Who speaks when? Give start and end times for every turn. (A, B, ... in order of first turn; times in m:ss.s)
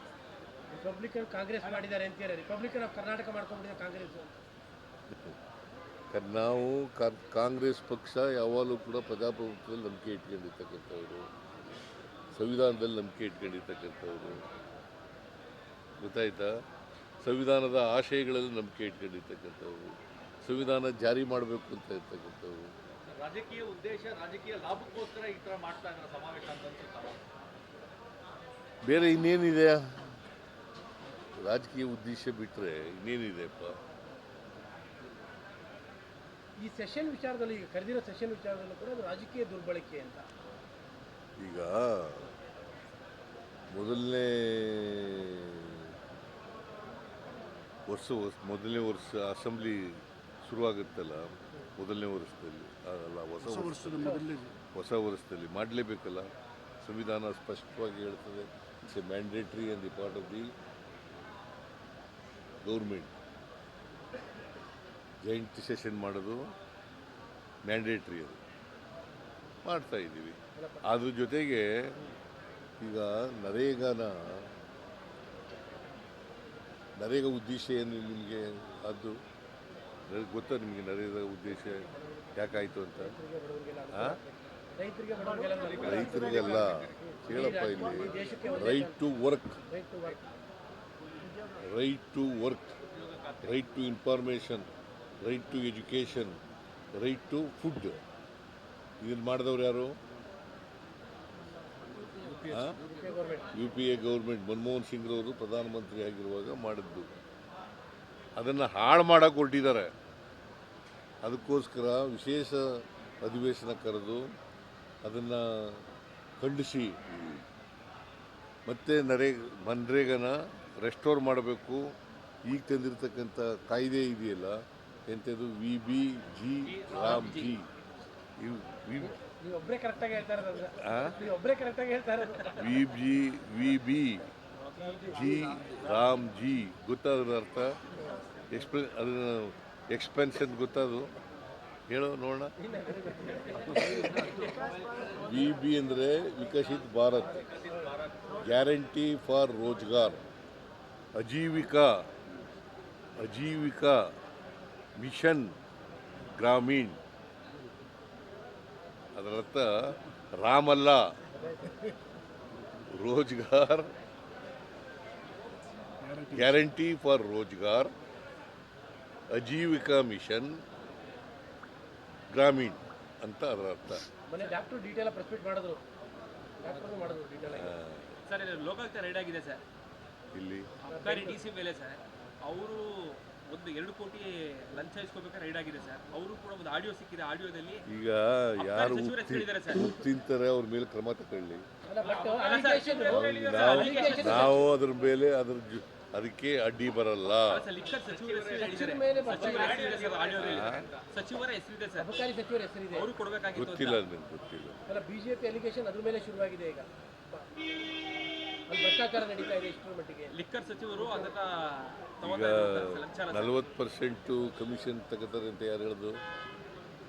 0:00.7-0:04.3 A
0:05.1-0:05.4 B
0:06.1-0:11.3 B
0:12.3-0:14.4 B
0:16.0-0:16.6 B
0:17.2-0:22.7 B
0:23.1-0:27.2 C
0:28.8-0:30.2 B
0:31.4-0:33.8 B
0:36.6-0:40.3 A
0:41.4-0:42.3 B
0:43.7-0:45.9 B
0:47.9-1:00.5 B
0:53.9-0:54.4 A
1:02.6-1:03.1 B
1:05.2-1:06.5 B
1:07.6-1:08.4 B
1:09.6-1:11.9 B
1:10.5-1:10.9 A
1:12.8-1:14.5 B
1:17.0-1:19.2 B
1:20.1-1:23.2 B
1:23.0-1:29.0 A
1:25.8-1:29.6 B
1:26.4-1:26.8 C
1:29.7-1:30.3 A
1:31.6-1:32.8 B
1:33.0-1:33.3 C
1:33.4-1:34.7 B
1:35.2-1:36.4 B
1:36.9-1:38.0 B
1:39.0-1:40.0 B
1:42.5-1:42.8 B
1:42.8-1:43.6 A
1:43.5-1:47.2 B
1:48.4-1:49.9 B
1:51.2-1:54.3 B
1:55.0-1:55.8 B
1:56.4-1:57.4 B
1:58.7-2:01.9 B
2:02.4-2:07.7 B
2:06.6-2:07.6 D
2:08.4-2:09.2 B
2:09.0-2:12.8 A
2:10.8-2:11.2 B
2:12.5-2:14.3 B
2:14.8-2:15.2 A
2:15.0-2:17.8 B
2:18.5-2:21.1 B
2:21.9-2:22.5 B
2:22.6-2:24.5 A
2:25.1-2:27.5 B
2:27.4-2:28.4 C
2:28.4-2:30.2 B
2:31.2-2:32.1 B
2:33.2-2:34.1 B
2:35.0-2:35.5 B
2:36.2-2:37.0 B
2:39.2-2:41.1 B
2:41.3-2:41.9 A
2:42.9-2:43.9 B
2:46.3-2:47.9 B
2:49.3-2:50.5 B
2:52.3-2:54.0 B
2:54.3-2:55.8 A
2:56.6-2:57.7 A
2:57.5-2:58.2 B
2:58.3-2:59.6 D
3:00.3-3:00.7 B
3:00.9-3:07.8 D
3:00.9-3:01.4 A
3:07.9-3:11.7 B
3:08.6-3:09.9 D
3:11.8-3:14.7 A
3:12.0-3:14.7 D
3:13.1-3:17.7 B
3:17.5-3:22.1 D
3:18.0-3:21.0 C
3:18.6-3:19.9 A
3:20.4-3:20.9 B
3:22.0-3:23.1 A
3:22.9-3:24.0 D
3:23.5-3:24.8 B
3:24.9-3:27.5 A
3:28.7-3:30.4 A
3:30.3-3:33.6 D
3:31.0-3:31.3 A
3:32.2-3:36.2 B